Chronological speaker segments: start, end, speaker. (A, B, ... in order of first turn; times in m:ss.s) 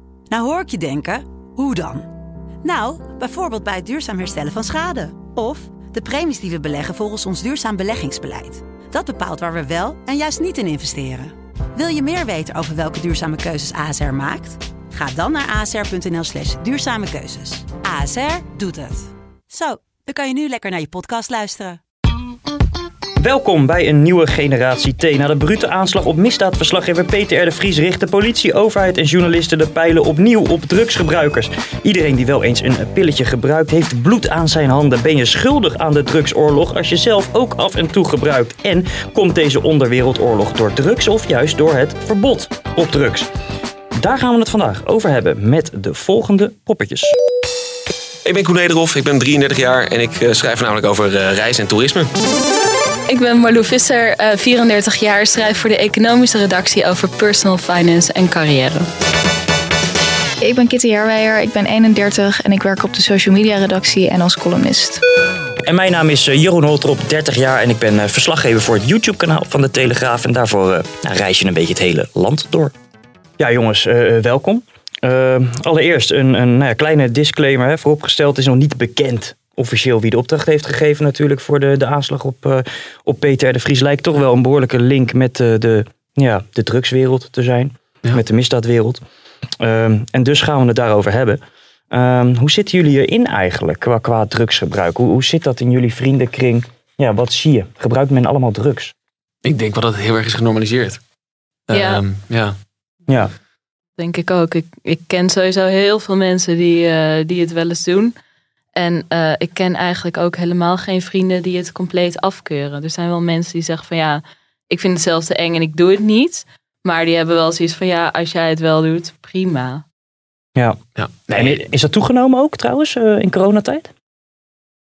0:00.3-0:02.1 A
0:02.6-0:21.8 A
0:23.2-0:43.3 B
0:44.0-0:47.1 B
0:48.2-0:52.1 C
0:53.1-0:58.9 D
1:00.4-1:05.0 E
1:05.7-1:12.7 B
1:13.4-1:29.0 B
1:29.6-1:38.9 B
1:39.4-1:41.0 C
1:41.7-1:42.6 C
1:41.7-1:42.0 D
1:44.0-1:48.1 D
1:48.8-1:59.8 D
2:01.0-2:01.6 C
2:01.3-2:03.9 B